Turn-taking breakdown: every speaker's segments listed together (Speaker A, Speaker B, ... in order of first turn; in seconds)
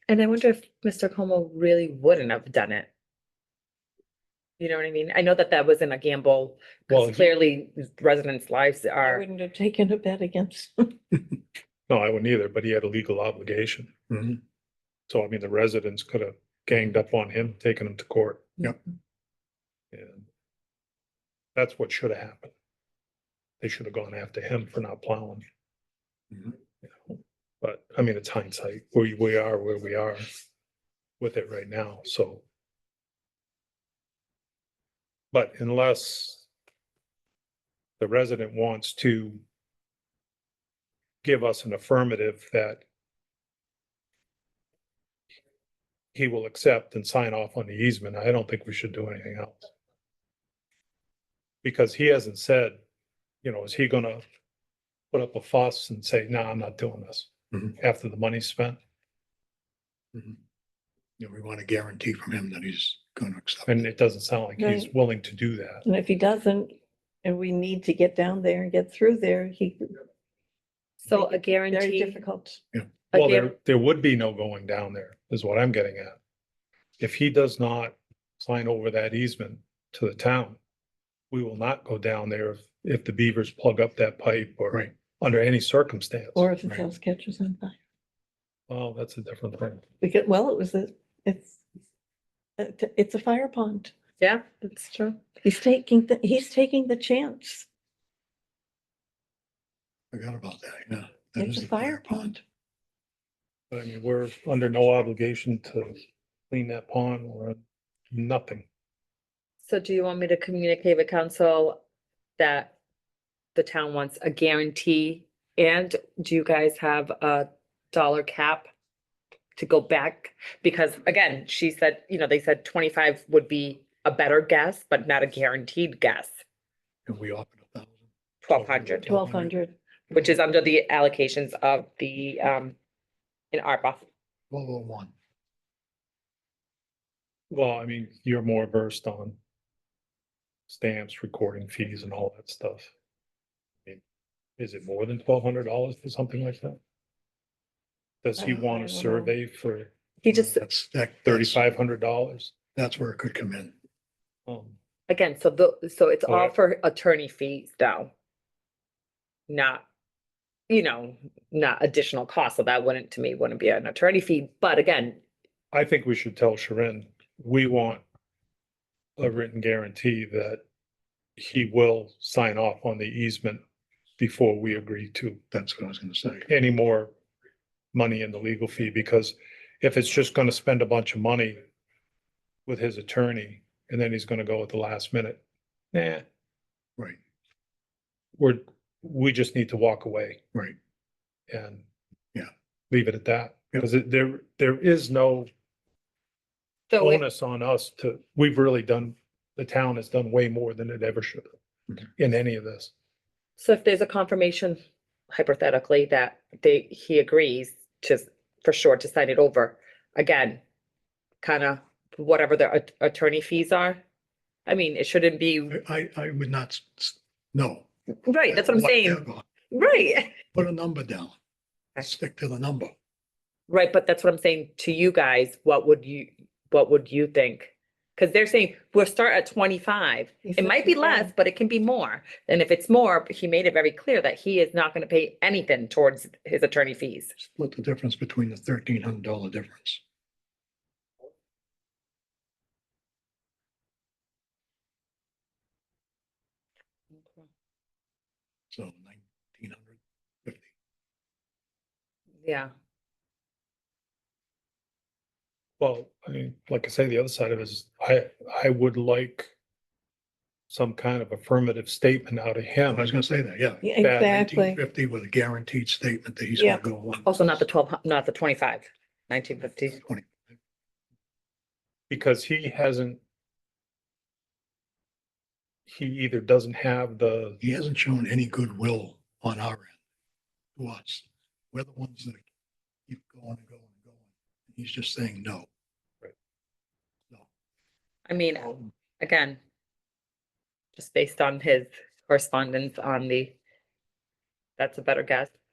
Speaker A: 0.1-2.9, 4.6-9.2, 71.0-72.2, 73.1-73.5, 94.2-95.2, 109.7-111.8, 112.4-112.7, 113.5-118.7, 119.6-126.3, 128.4-129.1, 130.1-132.8, 133.5-134.0, 150.2-150.6, 155.1-158.1, 159.5-159.8, 160.7-165.2, 196.9-197.2, 203.6-204.8, 205.3-210.6, 211.4-214.0, 214.7-215.7, 218.2-220.3, 223.7-237.3, 247.1-247.4, 252.4-252.7, 267.2-270.0, 288.3-289.6, 290.9-293.5, 294.8-295.5
Speaker B: 6.9-7.3, 11.9-13.9, 15.1-18.6, 19.9-20.3, 21.5-22.5, 23.6-25.4, 26.8-30.3, 31.2-32.4, 35.3-36.5, 38.0-39.4, 41.2-42.8, 46.1-49.7, 51.6-52.8, 53.4-54.2, 55.1-58.8, 63.7-65.8, 73.1-76.2, 77.0-80.6, 81.3-86.5, 88.7-89.8, 103.7-107.6, 108.1-108.7, 128.5-128.9, 137.5-139.3, 140.7-142.9, 144.6-146.8, 148.2-149.9, 151.2-152.5, 154.5-154.8, 156.3-156.5, 165.7-168.0, 169.2-170.6, 171.4-173.6, 174.2-175.4, 176.5-177.1, 177.9-181.6, 182.7-185.4, 185.9-186.2, 188.3-190.4, 191.5-191.8, 192.9-195.5, 197.0-201.5, 202.2-202.9, 255.8-259.5, 260.7-263.1, 264.0-264.4, 272.1-273.2, 275.9-277.6
Speaker C: 9.0-11.0, 64.6-64.9, 65.8-70.0, 71.1-72.6, 86.3-87.8, 90.0-91.6, 92.6-93.9, 95.4-97.7, 101.4-102.4, 129.1-129.7, 148.4-149.3, 230.4-231.3, 263.8-264.8
Speaker D: 14.1-14.4, 61.2-63.8, 100.1-102.3, 127.0-128.0, 128.8-129.5, 134.5-135.1, 150.3-151.6, 152.7-153.7, 175.5-176.5, 215.7-217.8, 218.5-219.5, 220.5-221.3, 222.0-222.9, 237.4-240.0, 248.7-250.7, 262.9-267.4, 270.0-270.4, 277.6-279.9, 280.8-282.4, 283.1-285.7